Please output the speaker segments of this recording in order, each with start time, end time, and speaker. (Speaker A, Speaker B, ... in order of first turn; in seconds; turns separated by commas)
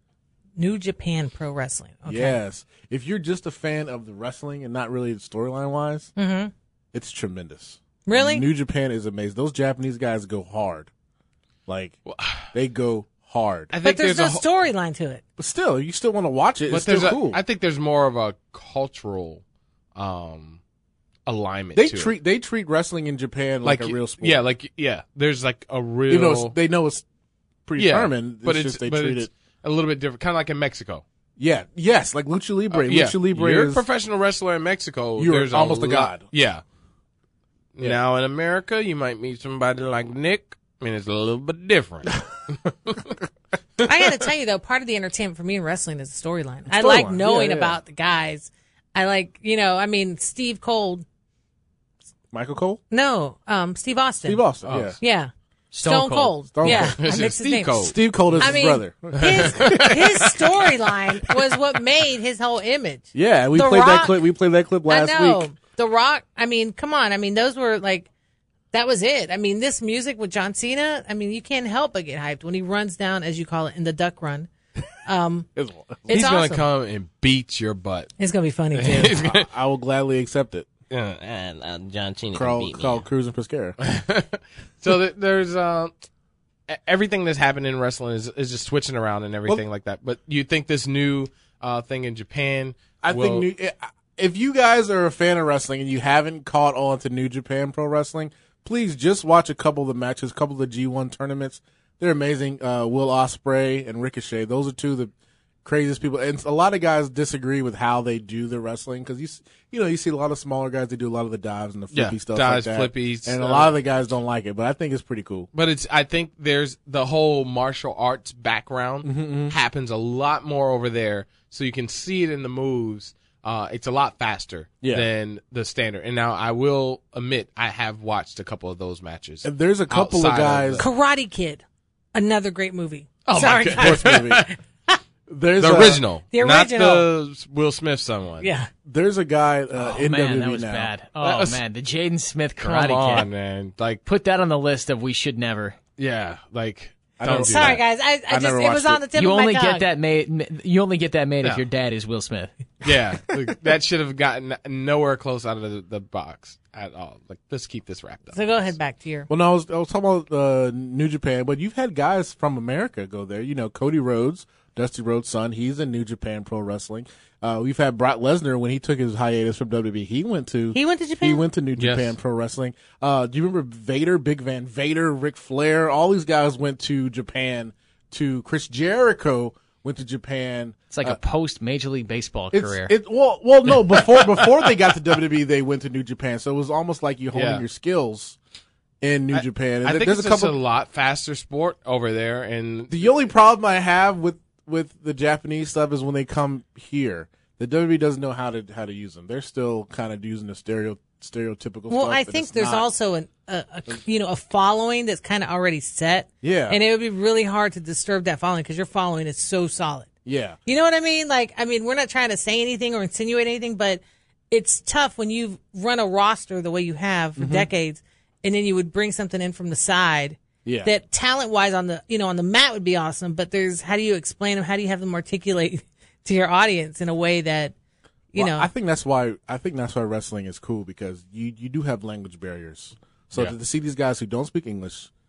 Speaker A: 0.6-2.4, Speaker B: 2.1-6.1, Speaker A: 6.2-6.5, Speaker B: 6.9-10.9, Speaker A: 8.1-8.4, Speaker B: 11.7-12.0, Speaker C: 12.1-12.5, Speaker B: 12.5-13.7, Speaker C: 13.7-14.5, Speaker A: 13.8-15.2, Speaker B: 15.4-17.4, Speaker C: 16.7-19.4, Speaker C: 20.0-20.6, Speaker C: 21.3-22.1, Speaker B: 21.8-24.4, Speaker C: 23.6-26.6, Speaker B: 26.1-27.1, Speaker B: 27.6-29.3, Speaker C: 27.8-31.0, Speaker B: 31.4-33.8, Speaker C: 32.7-36.6, Speaker B: 35.2-36.2, Speaker C: 37.8-43.1, Speaker A: 43.8-51.0, Speaker B: 46.7-47.8, Speaker B: 52.3-52.8, Speaker A: 52.9-55.3, Speaker B: 54.2-55.0, Speaker C: 54.6-54.9, Speaker D: 55.7-56.4, Speaker A: 55.8-64.2, Speaker B: 56.5-57.0, Speaker C: 56.7-58.5, Speaker B: 57.8-60.1, Speaker C: 59.2-60.5, Speaker B: 63.1-65.4, Speaker A: 64.9-68.1, Speaker A: 68.7-74.5, Speaker A: 75.1-75.5, Speaker B: 75.6-76.1, Speaker A: 76.1-76.6, Speaker C: 76.1-78.1, Speaker A: 78.2-79.1, Speaker C: 78.7-79.5, Speaker B: 79.1-80.7, Speaker C: 80.9-83.0, Speaker B: 82.3-83.8, Speaker C: 83.8-85.9, Speaker C: 86.7-93.5, Speaker B: 93.0-105.1, Speaker B: 105.6-115.5, Speaker C: 111.9-113.7, Speaker C: 115.5-130.9, Speaker B: 119.0-119.5, Speaker B: 124.8-125.1, Speaker B: 129.4-130.8, Speaker A: 130.8-131.6, Speaker A: 132.1-134.1, Speaker C: 133.3-134.5, Speaker B: 133.8-134.5, Speaker B: 135.3-136.0, Speaker C: 135.6-138.5, Speaker A: 136.3-137.1, Speaker A: 138.4-138.7, Speaker B: 138.9-140.9, Speaker D: 139.8-143.3, Speaker C: 141.2-141.6, Speaker C: 142.6-144.0, Speaker D: 144.1-145.8, Speaker C: 146.0-147.8, Speaker B: 147.2-149.1, Speaker A: 147.3-149.9, Speaker D: 149.1-152.5, Speaker C: 152.8-158.8, Speaker A: 158.3-159.3, Speaker B: 159.3-181.2, Speaker A: 170.7-171.4, Speaker C: 171.8-172.1, Speaker D: 180.9-182.9, Speaker B: 182.5-188.4, Speaker C: 184.1-184.5, Speaker C: 187.3-187.6, Speaker B: 189.0-190.6, Speaker C: 189.3-193.1, Speaker B: 192.9-202.9, Speaker A: 201.9-210.1, Speaker B: 206.4-206.8, Speaker B: 210.2-210.6, Speaker A: 210.7-227.8, Speaker B: 217.4-217.7, Speaker B: 220.6-220.9, Speaker A: 228.3-228.7, Speaker B: 228.4-235.1